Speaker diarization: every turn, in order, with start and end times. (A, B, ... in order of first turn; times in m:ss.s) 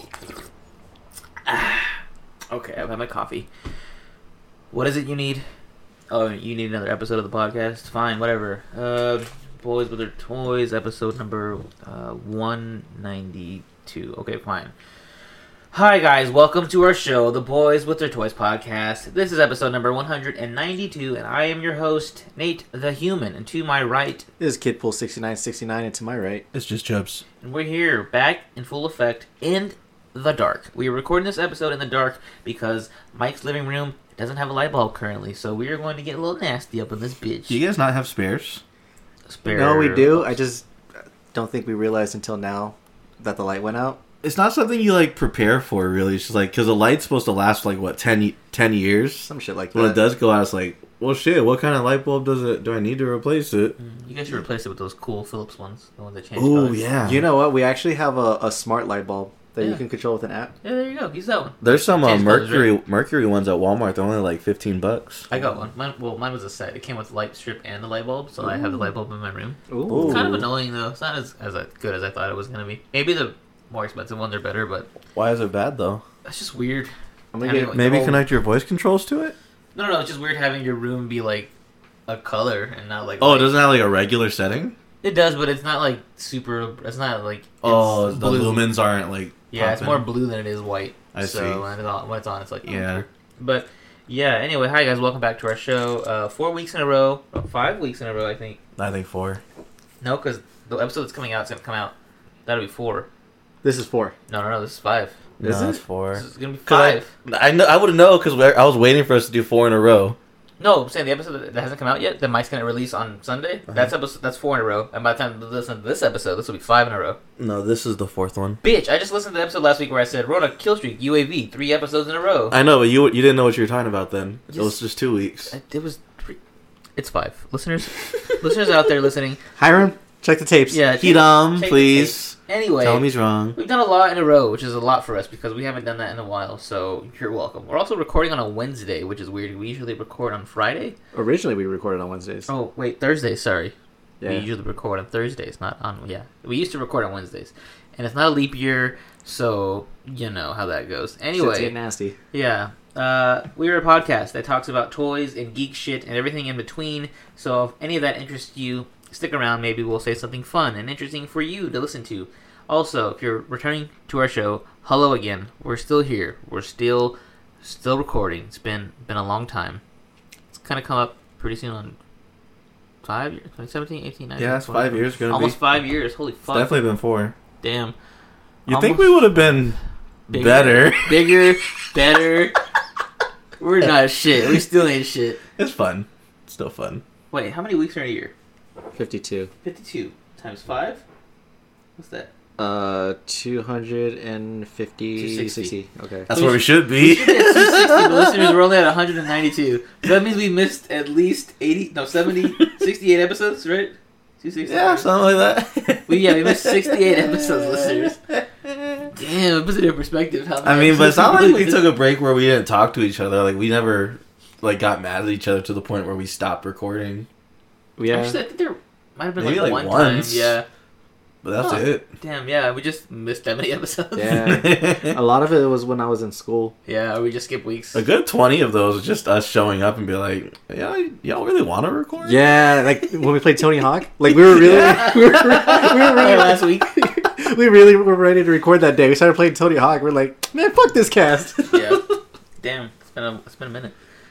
0:01.4-0:02.0 A
0:02.5-0:03.5 A
0:04.7-0:05.4 A
0:06.1-0:14.7 A
0:15.7-0:24.2 A
0:24.4-0:26.4 B
0:26.5-0:27.2 C
0:27.4-0:37.6 A
0:37.5-0:38.6 C
0:39.3-0:40.3 A
0:39.4-0:40.6 B
0:41.3-0:44.0 B
0:44.2-0:53.8 C
0:49.2-0:50.0 B
0:53.8-0:56.9 A
0:56.4-0:57.2 C
0:57.0-1:00.5 B
1:00.6-1:02.7 A
1:01.6-1:05.3 C
1:05.3-1:14.9 A
1:08.5-1:08.8 C
1:09.7-1:10.3 B
1:09.9-1:10.5 C
1:15.1-1:16.0 C
1:16.2-1:18.2 A
1:17.3-1:17.8 B
1:17.7-1:19.3 C
1:19.7-1:21.5 A
1:22.1-1:23.5 A
1:23.2-1:24.8 C
1:25.0-1:28.7 A
1:27.6-1:30.0 C
1:29.5-1:38.6 A
1:31.1-1:31.6 C
1:32.6-1:33.0 C
1:38.8-1:39.4 C
1:40.0-1:41.9 A
1:42.4-1:43.1 A
1:43.6-1:44.1 B
1:44.3-1:45.2 A
1:45.4-1:45.8 B
1:45.4-1:50.2 C
1:46.1-1:47.1 A
1:50.6-1:57.2 A
1:57.4-1:58.6 C
1:58.6-2:02.6 A
2:02.5-2:05.5 C
2:04.5-2:04.8 A
2:05.5-2:06.4 A
2:07.0-2:09.4 A
2:09.6-2:10.8 B
2:10.7-2:21.0 A
2:11.0-2:13.6 C
2:21.1-2:22.5 B
2:22.5-2:23.7 A
2:24.2-2:24.4 B
2:24.2-2:31.7 A
2:31.4-2:32.2 B
2:32.3-2:49.8 A
2:50.5-2:52.0 A
2:53.0-2:56.8 A
2:54.4-2:55.6 C
2:56.5-2:57.3 C
2:57.6-2:57.9 A
2:58.6-2:59.8 C
2:58.7-2:59.3 A
3:00.3-3:01.4 C
3:00.3-3:02.5 A
3:03.6-3:05.4 A
3:05.6-3:07.0 C
3:07.3-3:08.3 A
3:08.9-3:09.5 B
3:09.6-3:11.0 A
3:12.0-3:12.3 A
3:12.6-3:16.3 B
3:15.2-3:15.7 A
3:16.3-3:18.5 C
3:16.3-3:25.1 A
3:24.6-3:29.1 C
3:26.1-3:28.2 A
3:29.1-3:31.9 A
3:30.6-3:37.3 C
3:38.0-3:38.4 B
3:38.1-3:40.6 A
3:39.4-3:40.5 C
3:41.4-3:42.1 C
3:41.6-3:44.6 A
3:44.2-3:46.7 B
3:44.4-3:45.2 C
3:46.8-3:48.0 A
3:47.9-3:52.5 C
3:52.2-4:02.0 B
3:54.5-3:57.0 A
3:54.6-3:54.9 C
4:01.7-4:02.0 A
4:02.6-4:03.9 A